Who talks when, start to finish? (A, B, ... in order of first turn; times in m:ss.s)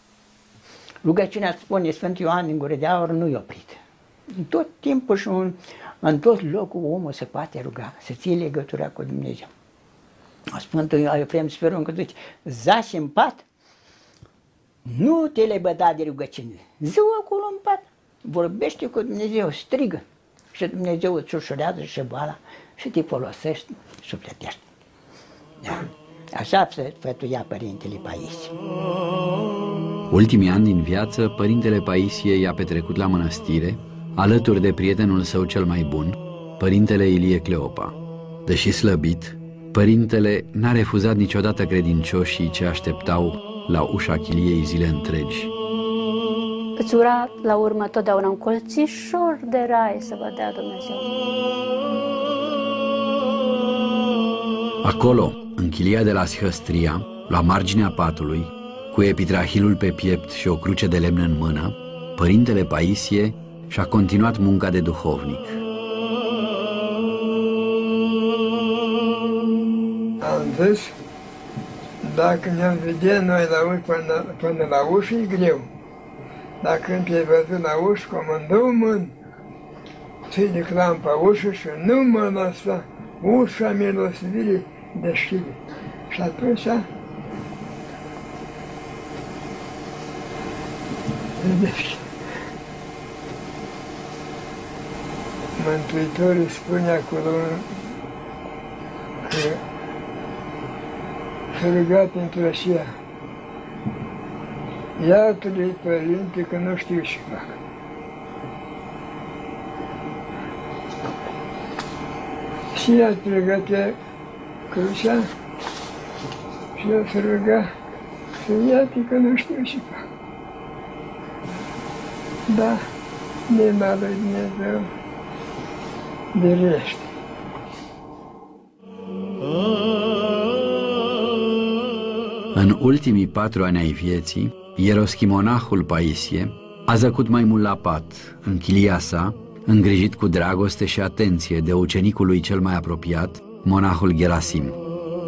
0:01.0-0:03.8 A
0:04.3-0:09.5 A
0:10.5-0:13.4 A
0:14.8-0:24.6 A
0:25.6-0:28.5 A
0:30.1-0:37.9 B
0:38.4-0:45.5 B
0:46.8-0:51.0 C
0:54.8-1:05.6 B
1:10.2-1:10.9 D
1:12.0-1:15.7 D
1:16.6-1:19.1 D
1:20.3-1:25.6 D
1:26.1-1:26.9 D
1:31.4-1:32.1 D
1:35.6-1:37.7 D
1:39.2-1:39.6 D
1:41.5-1:42.9 D
1:45.0-1:47.6 D
1:52.7-1:54.0 D
1:54.7-1:55.3 D
1:56.8-1:57.7 D
1:58.4-2:00.0 D
2:02.5-2:02.8 D
2:03.5-2:04.9 D
2:06.3-2:07.1 D
2:12.5-2:24.8 B